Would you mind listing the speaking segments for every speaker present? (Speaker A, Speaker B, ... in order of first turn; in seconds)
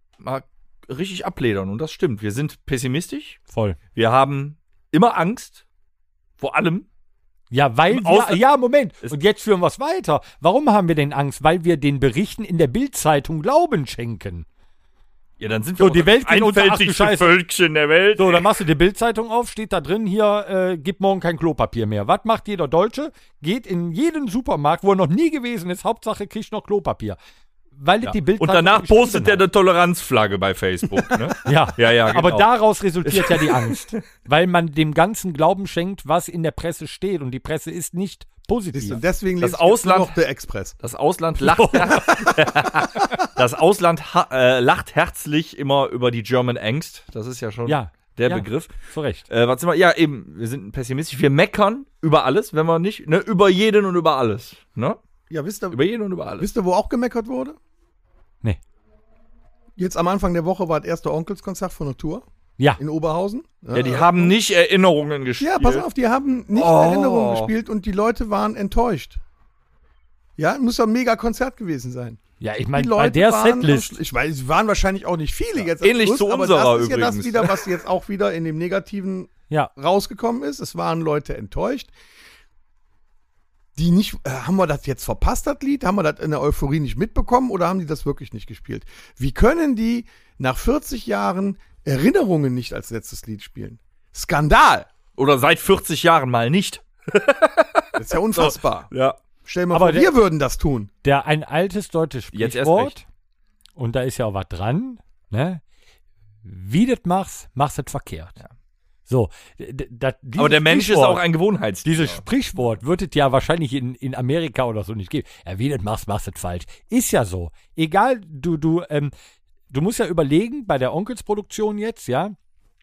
Speaker A: 0.2-3.4, 3.9-5.6, 6.4-6.8, 7.9-8.4, 15.4-18.5, 28.0-32.5, 33.0-34.0, 39.4-40.1, 40.8-48.7, 49.3-55.0, 55.7-56.5, 63.7-65.9, 66.5-67.5, 75.8-77.6, 95.2-99.2, 102.3-102.9, 110.4-112.2
Speaker B: 3.5-3.8, 7.5-14.4, 15.8-17.3, 18.2-27.2, 27.8-29.4, 31.4-39.0, 41.4-42.0, 47.7-49.2, 72.4-74.0, 99.7-100.1, 101.0-103.0, 103.8-105.6, 106.4-108.4, 109.1-111.2, 111.8-119.1, 119.7-122.3
Speaker C: 38.7-40.8, 41.9-42.9, 55.3-55.8, 56.4-57.6, 59.8-62.2, 62.8-64.3, 65.4-69.2, 70.4-72.2, 72.7-81.9, 83.7-94.9, 98.0-98.9, 99.4-100.9